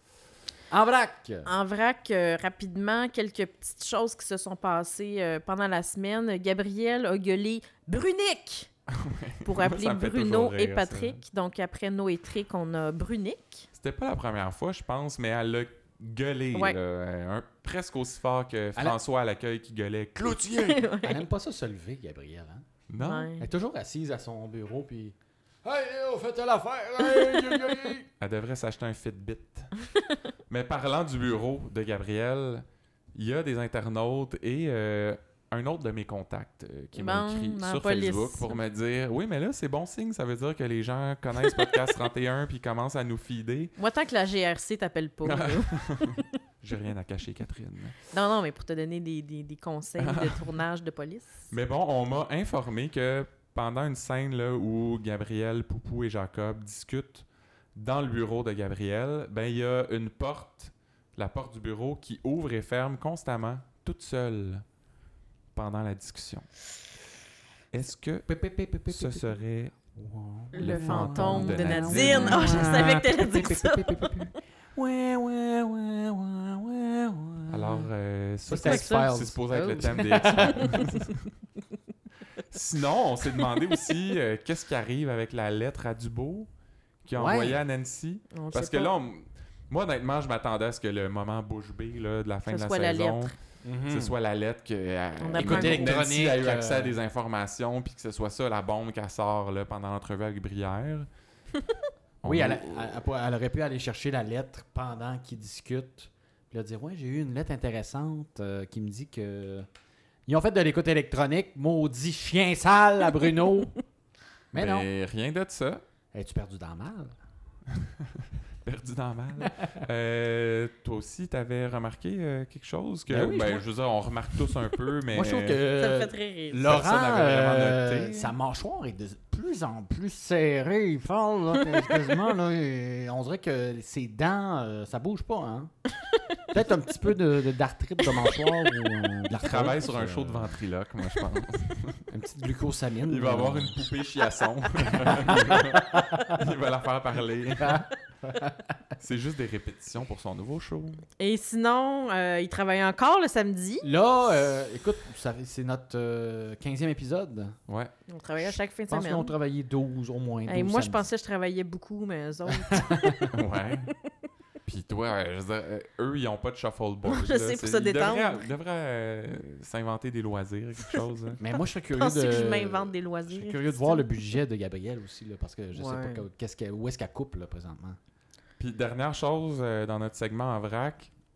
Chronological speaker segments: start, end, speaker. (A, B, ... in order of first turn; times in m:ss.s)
0:00.7-0:01.5 A
0:01.5-0:08.7 B
0:08.9-0:11.2 C
0:09.4-0:13.7 B
0:13.7-0:20.6 C
0:20.2-0:22.6 A
0:20.5-0:21.2 B
0:22.9-0:23.3 C
0:23.0-0:23.5 B
0:23.4-0:28.1 A
0:27.1-0:27.7 B
0:28.2-0:29.7 C
0:29.9-0:30.2 B
0:30.5-0:43.7 C
0:37.0-0:38.6 B
0:41.5-0:41.9 B
0:43.8-0:46.4 B
0:45.2-0:48.0 C
0:48.1-0:51.5 B
0:50.0-0:50.4 C
0:51.5-1:04.6 C
1:05.5-1:06.5 C
1:07.7-1:08.3 C
1:08.3-1:09.4 A
1:08.9-1:09.8 C
1:10.0-1:17.9 A
1:10.6-1:12.8 C
1:10.6-1:14.3 B
1:17.5-1:21.3 C
1:18.5-1:20.8 A
1:18.5-1:20.9 B
1:22.5-1:26.5 C
1:27.0-1:33.3 C
1:27.2-1:27.6 A
1:28.3-1:28.9 B
1:32.5-1:33.3 B
1:33.6-1:34.1 A
1:33.9-1:41.1 C
1:35.2-1:36.0 B
1:35.4-1:37.0 A
1:42.2-1:43.0 C
1:42.2-1:49.7 A
1:50.3-1:53.8 A
1:54.5-1:54.9 A
1:54.5-1:55.8 C
1:56.1-1:57.2 A
1:57.7-2:05.6 C
2:03.1-2:03.7 A
2:04.3-2:15.7 A
2:05.8-2:06.7 B
2:06.6-2:08.3 C
2:16.5-2:20.6 A
2:18.1-2:18.6 B
2:19.4-2:22.1 C
2:22.1-2:23.8 A
2:23.1-2:27.9 C
2:24.9-2:26.4 A
2:27.6-2:28.8 A
2:29.0-2:31.0 C
2:31.2-2:33.9 B
2:33.8-2:37.6 A
2:38.1-2:39.3 B
2:38.4-2:41.1 A
2:40.5-2:43.4 B
2:42.5-2:43.3 A
2:43.3-2:43.9 C
2:44.6-2:51.4 C
2:47.1-2:48.4 B
2:50.8-2:54.1 B
2:51.4-2:58.0 A
2:55.7-2:56.2 B
2:58.6-3:01.1 C